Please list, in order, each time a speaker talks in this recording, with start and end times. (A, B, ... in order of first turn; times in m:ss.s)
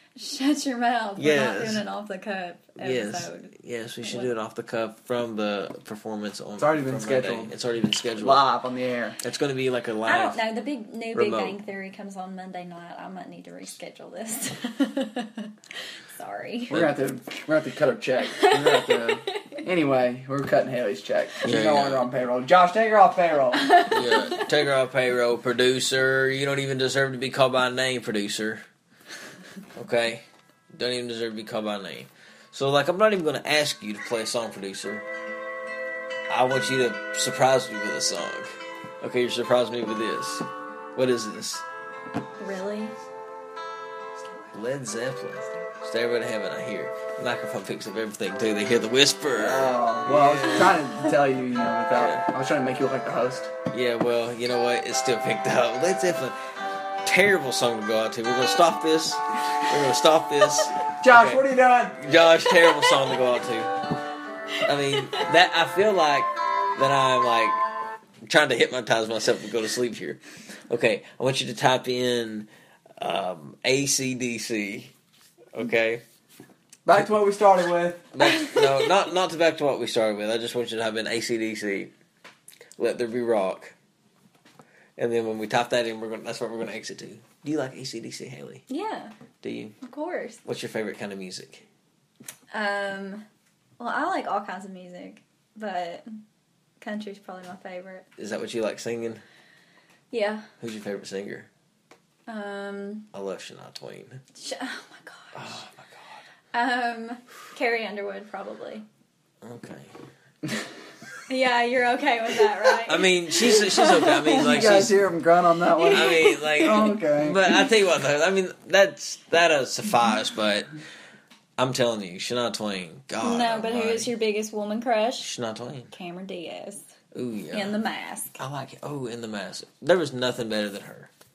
0:00.2-0:04.3 A
0:01.2-0:01.8 B
0:02.8-0:08.5 B
0:06.6-0:07.5 C
0:08.2-0:09.2 C
0:09.2-0:10.4 B
0:10.0-0:15.5 A
0:11.1-0:11.6 B
0:16.1-0:16.8 A
0:16.7-0:17.0 B
0:16.7-0:23.8 C
0:18.3-0:19.5 A
0:21.4-0:22.1 B
0:23.6-0:24.4 A
0:23.8-0:28.6 B
0:29.7-0:35.0 B
0:36.3-0:38.5 B
0:39.0-0:41.6 B
0:42.4-0:42.9 A
0:44.5-0:50.8 B
0:49.3-0:53.5 C
0:51.9-0:52.2 B
0:53.7-0:56.4 B
0:57.0-1:03.8 B
1:01.0-1:02.0 C
1:04.6-1:05.2 A
1:04.6-1:07.6 B
1:08.2-1:12.5 B
1:13.0-1:14.9 B
1:15.5-1:16.0 B
1:16.8-1:18.1 C
1:18.1-1:21.9 B
1:22.8-1:23.7 B
1:25.0-1:28.6 B
1:28.7-1:29.1 A
1:29.4-1:29.8 B
1:29.8-1:30.4 A
1:30.4-1:31.6 B
1:32.5-1:33.2 A
1:33.8-1:36.0 A
1:36.8-1:38.0 A
1:38.2-1:39.2 B
1:40.1-1:40.4 A
1:40.6-1:41.5 B
1:42.3-1:43.1 A
1:43.1-1:44.2 B
1:44.3-1:45.6 A
1:45.3-1:46.1 B
1:46.5-1:48.8 A
1:49.4-1:49.9 B
1:51.3-1:54.8 A
1:52.8-1:55.0 B
1:54.4-1:57.5 C
1:55.8-1:56.9 A
1:55.9-2:00.7 B
2:01.6-2:04.1 B
2:03.2-2:05.3 A
2:05.2-2:05.9 B
2:05.9-2:06.8 A
2:07.1-2:07.8 B
2:07.5-2:08.4 A
2:08.4-2:11.1 B